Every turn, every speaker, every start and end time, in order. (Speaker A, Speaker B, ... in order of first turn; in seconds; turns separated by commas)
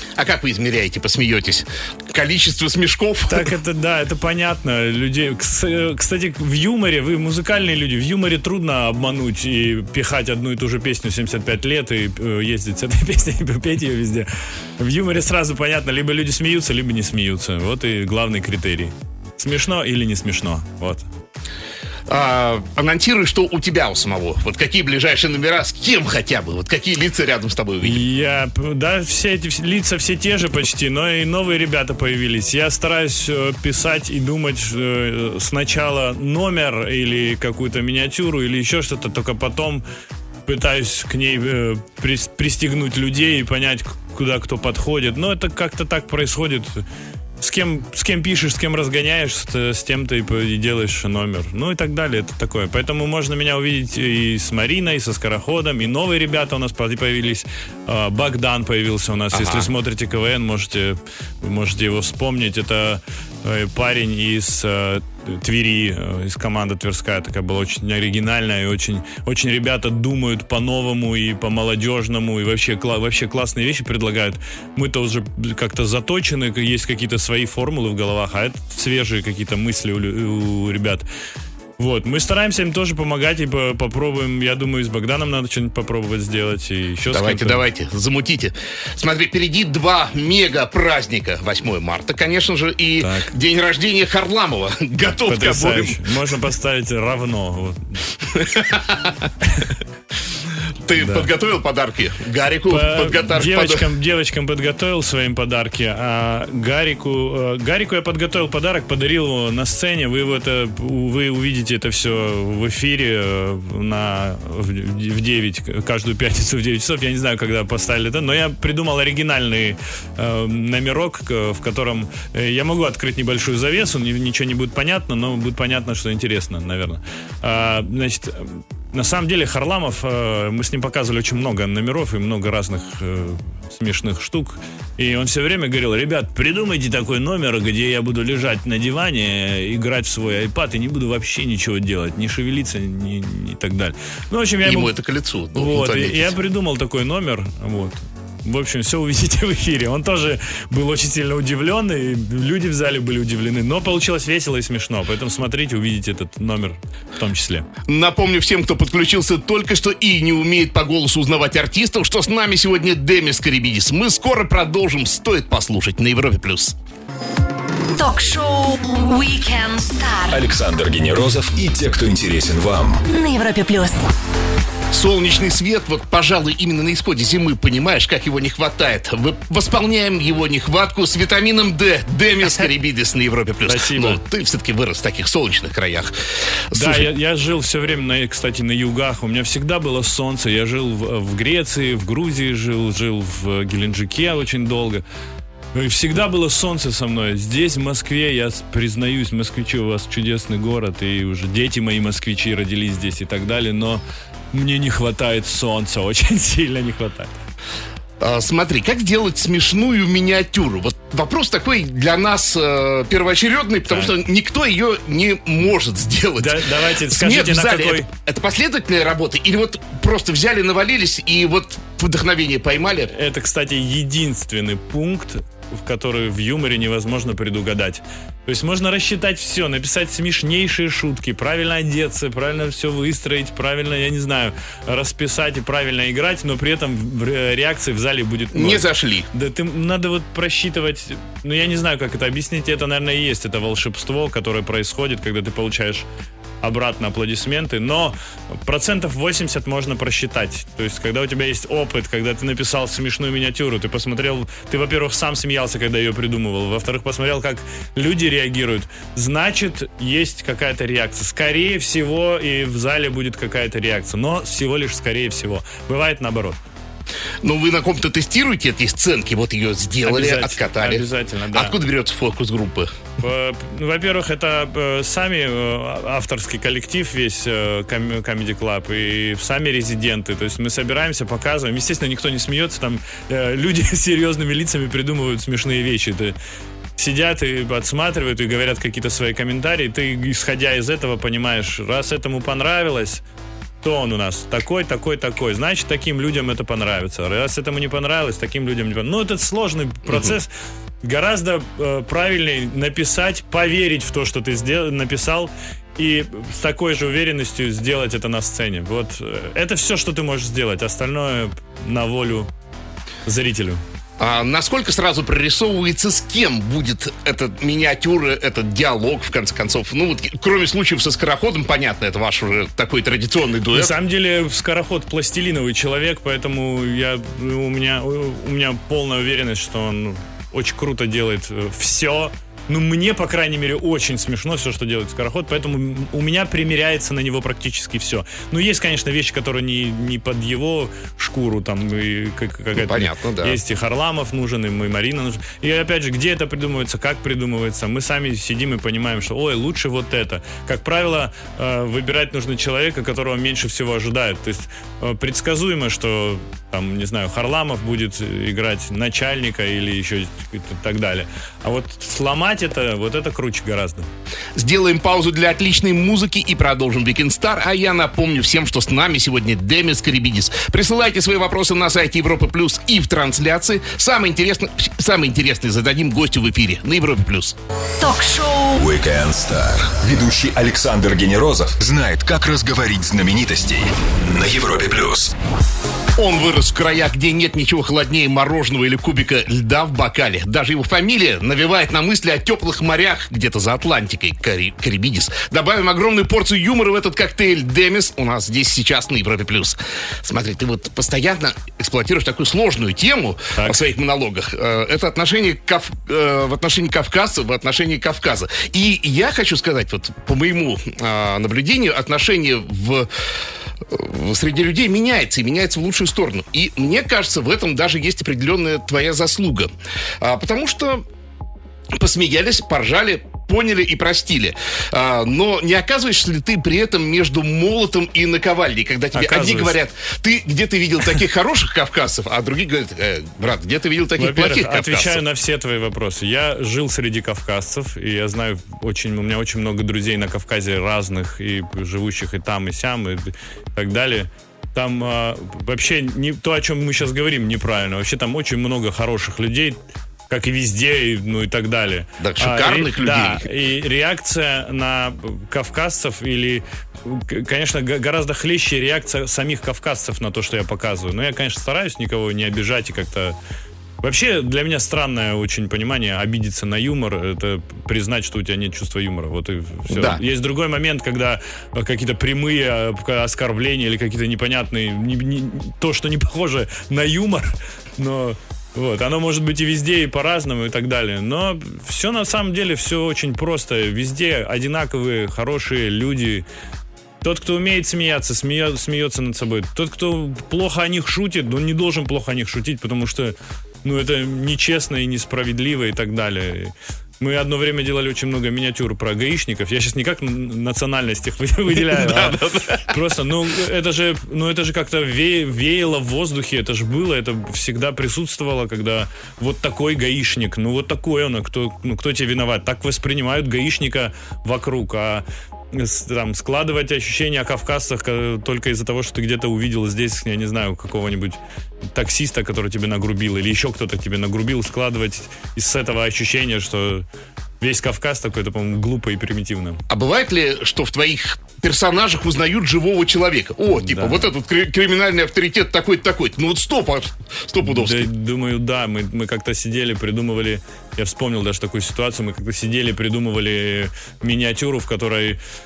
Speaker A: 0.2-3.5, Speaker B: 3.3-21.1, Speaker A: 22.1-28.1, Speaker B: 27.8-39.9, Speaker B: 40.5-46.9, Speaker B: 47.4-81.0, Speaker A: 59.3-59.7, Speaker B: 81.8-87.6, Speaker A: 87.1-96.1, Speaker B: 93.0-93.3, Speaker B: 95.3-98.0, Speaker A: 98.3-99.2, Speaker B: 99.4-99.7, Speaker A: 100.8-103.8, Speaker B: 101.0-101.3, Speaker B: 102.7-144.9, Speaker A: 144.7-146.3, Speaker B: 145.6-157.7, Speaker A: 157.9-166.8, Speaker C: 167.9-170.4, Speaker D: 170.3-173.1, Speaker C: 173.1-174.0, Speaker A: 174.9-186.2, Speaker B: 183.7-184.2, Speaker A: 186.7-187.1, Speaker B: 186.7-195.0, Speaker B: 195.7-207.3, Speaker A: 208.2-223.1, Speaker B: 213.9-214.2, Speaker B: 216.4-218.1, Speaker B: 223.1-246.1, Speaker A: 238.5-239.3, Speaker B: 246.6-266.6, Speaker A: 267.4-272.9, Speaker B: 270.0-271.8, Speaker B: 273.2-286.4, Speaker B: 287.0-293.2, Speaker B: 293.8-312.5, Speaker B: 313.3-313.8, Speaker A: 314.2-323.9, Speaker B: 323.7-364.1, Speaker A: 342.8-343.6, Speaker A: 364.6-377.6, Speaker C: 378.0-378.8, Speaker D: 378.8-385.3, Speaker A: 386.2-413.1, Speaker A: 413.9-421.0, Speaker A: 421.9-435.2, Speaker B: 429.1-429.8, Speaker B: 434.2-449.8, Speaker B: 450.3-463.4, Speaker A: 452.2-453.5, Speaker B: 464.0-486.5, Speaker A: 469.9-470.2, Speaker B: 487.2-521.4, Speaker A: 501.8-502.9, Speaker B: 521.9-527.1, Speaker B: 527.6-529.8, Speaker A: 529.9-538.1, Speaker B: 533.7-534.3, Speaker B: 537.6-545.4